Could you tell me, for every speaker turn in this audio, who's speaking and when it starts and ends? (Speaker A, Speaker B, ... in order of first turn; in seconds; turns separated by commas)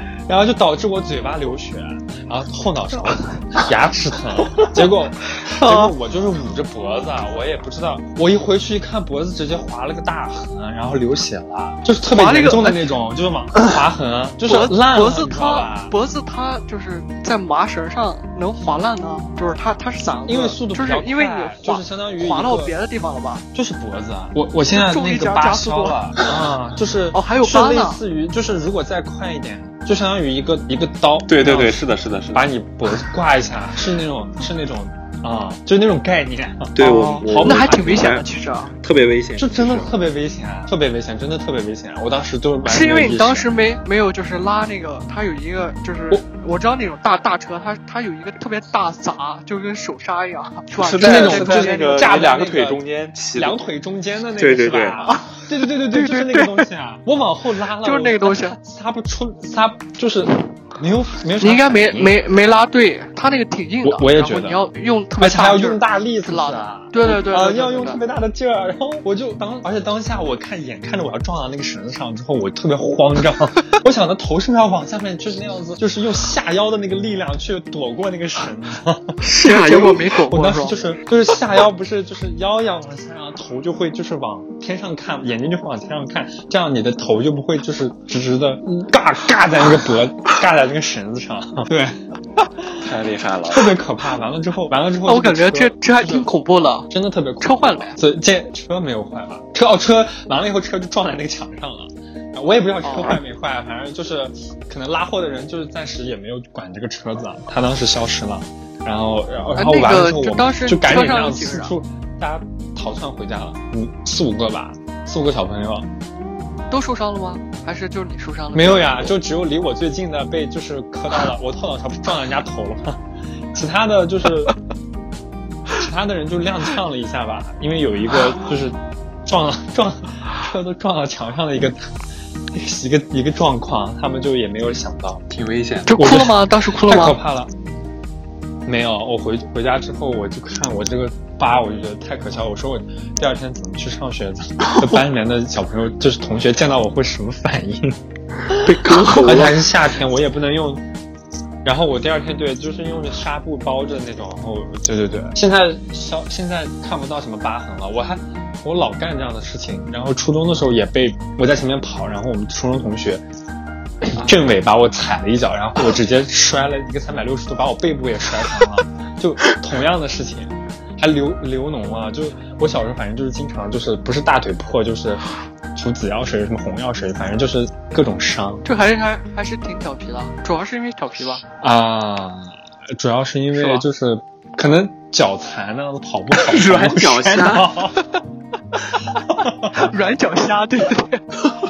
Speaker A: 0.3-15.9, Speaker B: 5.4-5.9, Speaker B: 12.1-12.8, Speaker B: 14.4-23.4, Speaker A: 20.3-22.7, Speaker A: 23.5-37.8, Speaker B: 24.7-26.0, Speaker B: 27.1-28.0, Speaker C: 31.3-32.5, Speaker C: 36.7-38.3, Speaker B: 36.8-38.8, Speaker C: 38.8-39.9, Speaker A: 39.4-43.5, Speaker B: 42.6-52.2, Speaker C: 50.7-53.6, Speaker A: 51.0-52.8, Speaker A: 53.3-62.2, Speaker C: 54.4-55.0, Speaker B: 55.0-56.6, Speaker B: 57.8-58.6, Speaker B: 61.4-68.0, Speaker A: 63.8-64.6, Speaker A: 65.2-92.0, Speaker B: 79.2-80.8, Speaker C: 92.8-93.8, Speaker A: 93.5-96.3, Speaker B: 95.0-98.0, Speaker A: 96.9-115.9, Speaker B: 102.8-103.2, Speaker B: 109.5-111.7, Speaker B: 116.7-119.2, Speaker A: 118.5-123.0, Speaker A: 123.5-124.5, Speaker A: 125.7-131.9, Speaker A: 132.5-135.2, Speaker C: 135.3-136.1, Speaker B: 135.9-137.2, Speaker A: 135.9-137.5, Speaker A: 138.7-150.8, Speaker B: 148.6-149.6, Speaker C: 148.8-149.6, Speaker A: 151.6-163.2, Speaker A: 164.0-178.6, Speaker B: 178.6-181.4, Speaker A: 181.6-188.0, Speaker B: 183.5-183.8, Speaker C: 186.3-187.7, Speaker A: 189.3-189.7, Speaker B: 189.7-191.2